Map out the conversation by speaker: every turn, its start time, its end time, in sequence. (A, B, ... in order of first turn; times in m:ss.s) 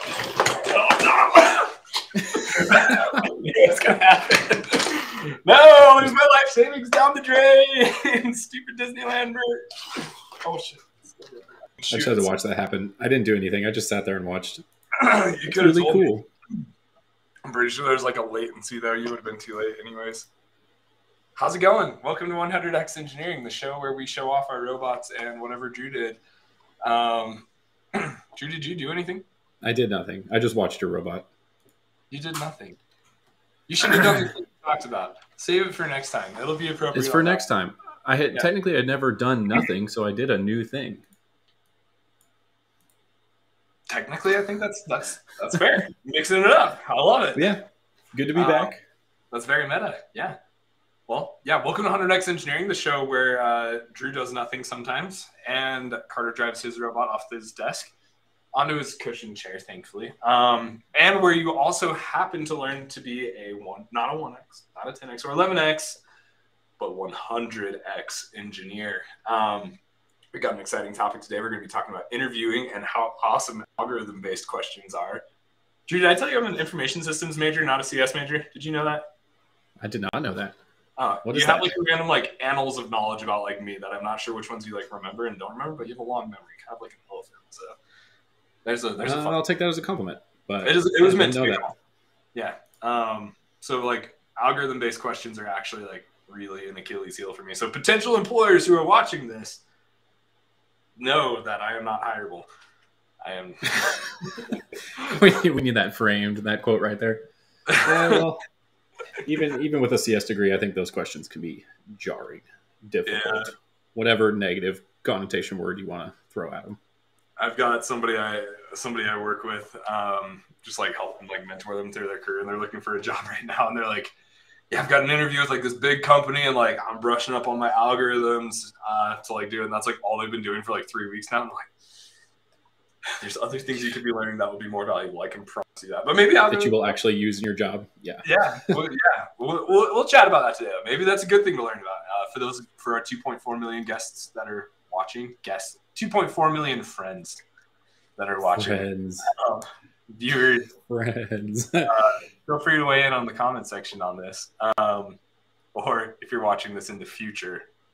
0:00.4-0:01.7 A
0:02.3-0:12.3 A
0:11.9-0:14.6 B
0:15.0-0:16.1 A
0:15.5-0:16.3 B
0:17.4-0:20.3 A
0:21.4-0:26.2 A
0:26.8-0:29.2 A
0:29.6-0:31.3 B
0:32.1-0:32.8 A
0:33.7-0:37.4 A
0:33.9-0:34.2 B
0:36.9-0:41.0 B
0:43.9-0:47.5 A
0:47.4-0:48.8 B
0:48.3-0:48.7 A
0:49.3-0:50.4 A
0:51.1-0:57.9 A
0:58.5-1:06.0 A
1:06.8-1:09.8 A
1:10.3-1:15.2 A
1:15.9-1:19.0 A
1:19.8-1:20.6 B
1:21.0-1:27.8 A
1:21.2-1:21.8 B
1:28.6-1:29.4 A
1:29.0-1:31.7 B
1:30.6-1:31.7 A
1:32.3-1:39.6 A
1:41.0-1:42.4 A
1:43.2-1:44.0 A
1:45.0-1:47.2 B
1:47.7-1:48.2 A
1:47.8-1:48.4 B
1:49.2-1:56.8 B
1:53.0-1:53.5 A
1:57.4-2:04.1 A
2:04.7-2:11.7 A
2:13.2-2:17.0 A
2:16.5-2:18.8 B
2:18.2-2:27.4 A
2:28.2-2:30.7 A
2:28.6-2:29.3 B
2:30.8-2:31.9 B
2:31.8-2:35.2 A
2:35.7-2:37.6 A